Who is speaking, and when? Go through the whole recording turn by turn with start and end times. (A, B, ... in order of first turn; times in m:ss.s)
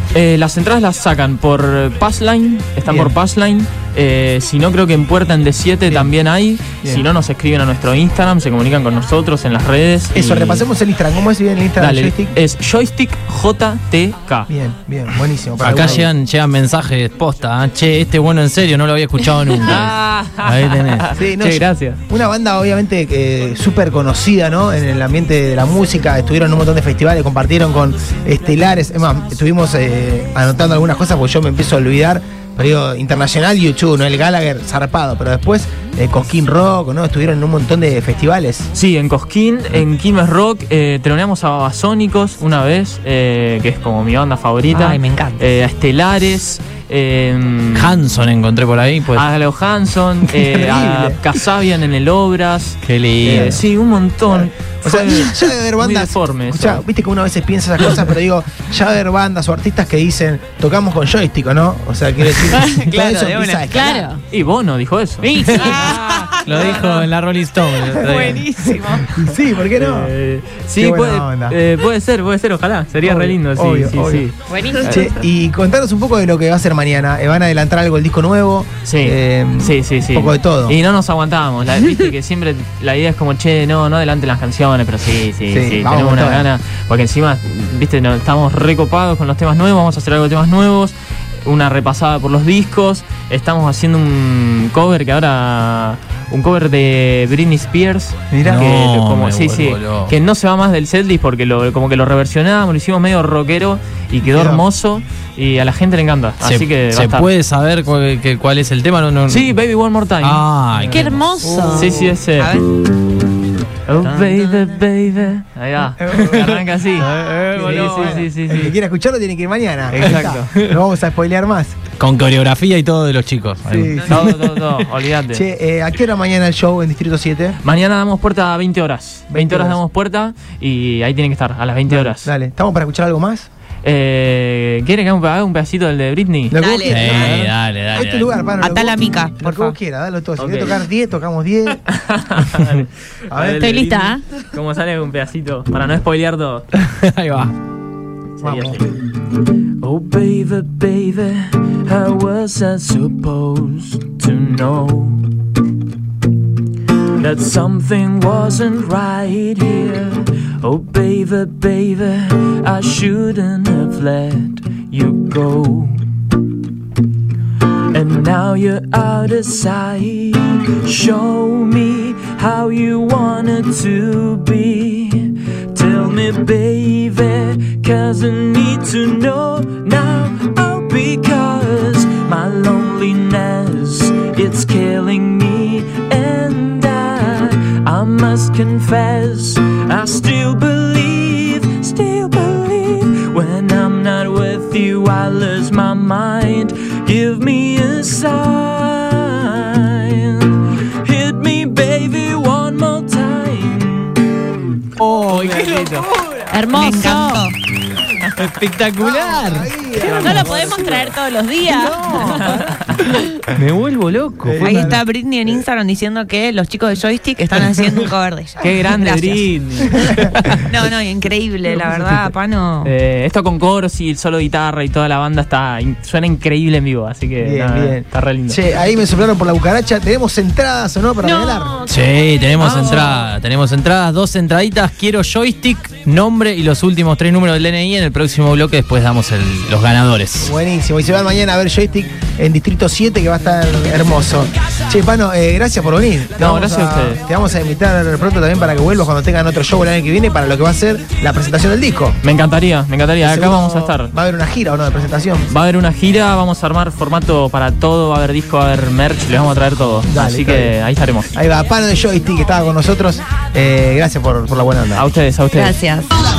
0:00.1-0:10.7 A
0:02.8-0:03.2 B
0:05.9-0:06.1 B
0:10.1-0:12.4 B
0:11.8-0:14.5 A
0:14.5-0:16.1 B
0:15.6-0:21.1 C
0:15.7-0:16.0 A
0:19.6-0:22.0 A
0:21.2-0:38.7 B
0:38.7-0:48.0 A
0:44.7-0:45.4 D
0:47.7-0:49.2 C
0:49.1-0:56.8 A
0:50.3-0:51.2 B
0:52.8-0:53.6 C
0:53.3-0:53.6 B
0:54.3-1:04.1 B
1:02.7-1:03.7 D
1:03.7-1:04.2 E
1:04.3-1:05.8 A
1:05.2-1:07.1 E
1:05.5-1:08.5 C
1:05.9-1:06.3 D
1:08.0-1:09.1 D
1:08.8-1:10.1 B
1:09.7-1:15.1 A
1:10.8-1:11.6 B
1:13.0-1:14.3 B
1:14.5-1:15.1 E
1:14.9-1:20.8 B
1:18.8-1:47.3 A
1:25.5-1:26.5 B
1:38.3-1:38.7 B
1:38.4-1:40.1 C
1:44.3-1:44.7 B
1:46.4-1:49.5 C
1:49.3-1:51.1 A
1:50.2-1:51.3 C
1:50.9-1:52.0 E
1:51.4-1:52.2 B
1:51.7-1:52.5 A
1:52.4-1:52.7 D
1:53.9-1:58.7 A
1:54.0-1:54.6 D
1:56.0-1:56.7 B
1:57.0-1:58.2 C
1:57.5-2:01.8 B
1:59.9-2:00.5 A
2:00.0-2:00.7 C
2:02.0-2:04.8 C
2:03.7-2:04.3 B
2:04.1-2:05.5 A
2:05.3-2:07.6 B
2:07.6-2:12.3 A
2:09.3-2:09.8 B
2:11.9-2:13.5 B
2:13.8-2:17.4 A
2:16.5-2:21.8 B
2:16.5-2:17.4 D
2:16.9-2:18.5 C
2:18.6-2:19.8 D
2:20.4-2:20.8 A
2:21.9-2:26.7 A
2:23.3-2:23.7 B
2:23.6-2:24.2 E
2:26.8-2:27.5 C
2:28.4-2:28.9 A
2:28.4-2:28.8 B
2:29.8-2:35.3 A
2:37.2-2:46.0 A
2:47.9-3:24.2 A
3:25.0-3:26.4 C
3:25.3-3:26.1 A
3:26.5-3:27.5 E
3:26.7-3:27.6 D
3:28.4-3:30.3 C
3:29.0-3:31.2 B
3:30.0-3:31.1 A
3:30.2-3:32.5 E
3:31.7-3:35.0 C
3:34.4-3:35.0 B
3:34.6-3:39.5 D
3:38.6-3:40.7 A
3:40.7-3:42.9 D
3:42.8-3:48.6 A
3:47.4-3:51.8 B
3:51.2-3:53.3 E
3:51.9-4:00.5 C
4:00.4-4:12.2 B
4:06.4-4:07.2 A
4:12.2-4:14.1 A
4:13.2-4:15.5 B
4:15.5-4:21.3 A
4:20.1-4:20.8 B
4:21.3-4:25.0 B
4:25.0-4:25.8 A
4:25.5-4:26.1 D